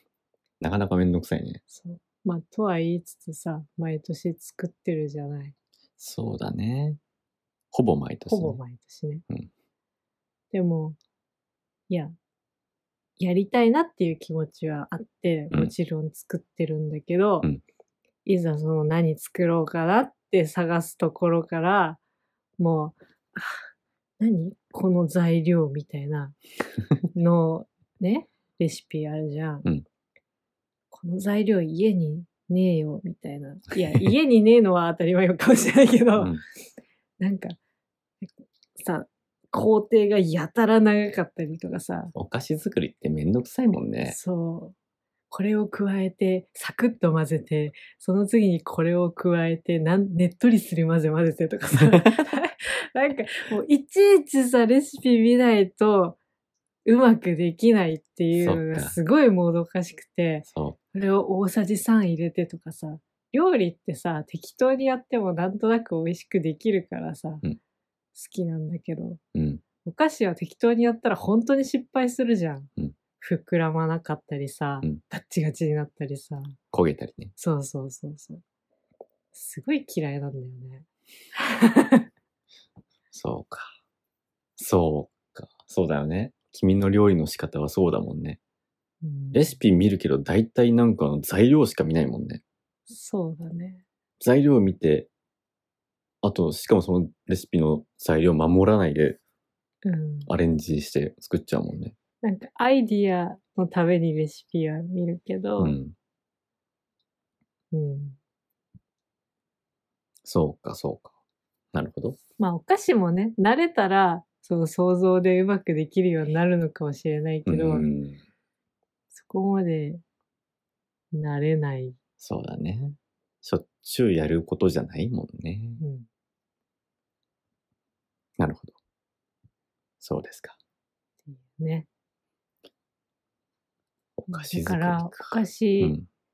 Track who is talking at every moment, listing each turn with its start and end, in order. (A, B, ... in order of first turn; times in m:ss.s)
0:00.6-0:01.6 A
0:01.7-0:05.6 B
0:06.0-0:07.0 A
0:07.7-0:08.6 A
0:08.3-0:09.2 B
0:10.5-0:11.0 B
0:13.2-0:17.5 B
0:18.2-0:22.0 B
0:22.6-0:23.7 B
0:24.2-0:26.4 B
0:27.1-0:29.7 B
0:30.9-0:36.4 B
0:36.2-0:36.4 A
0:37.2-0:37.6 B
0:38.8-0:42.1 B
0:42.2-0:44.2 A
0:44.0-0:44.8 B
0:45.3-0:56.2 B
0:56.8-1:07.4 B
0:58.3-0:59.0 A
1:00.5-1:00.8 A
1:08.2-1:09.2 B
1:09.4-1:09.6 A
1:09.8-1:16.6 B
1:16.7-1:17.3 A
1:17.4-1:18.4 B
1:19.3-1:20.8 B
1:21.4-1:22.0 B
1:23.1-1:23.7 A
1:24.6-1:28.4 A
1:29.0-1:29.6 B
1:29.3-1:32.4 A
1:32.9-1:33.8 B
1:34.2-1:35.1 A
1:36.2-1:39.2 A
1:39.8-1:40.3 B
1:40.3-1:42.0 A
1:42.2-1:45.8 B
1:45.6-1:46.0 A
1:47.7-1:48.2 B
1:50.2-1:51.1 A
1:51.7-1:52.2 A
1:52.4-1:57.9 B
1:57.5-1:58.2 A
1:59.1-2:00.0 B
2:01.1-2:02.0 B
2:02.2-2:05.8 A
2:05.8-2:06.1 B
2:08.4-2:08.8 A
2:10.0-2:10.6 A
2:11.3-2:11.9 B
2:14.2-2:16.1 A
2:14.3-2:16.0 B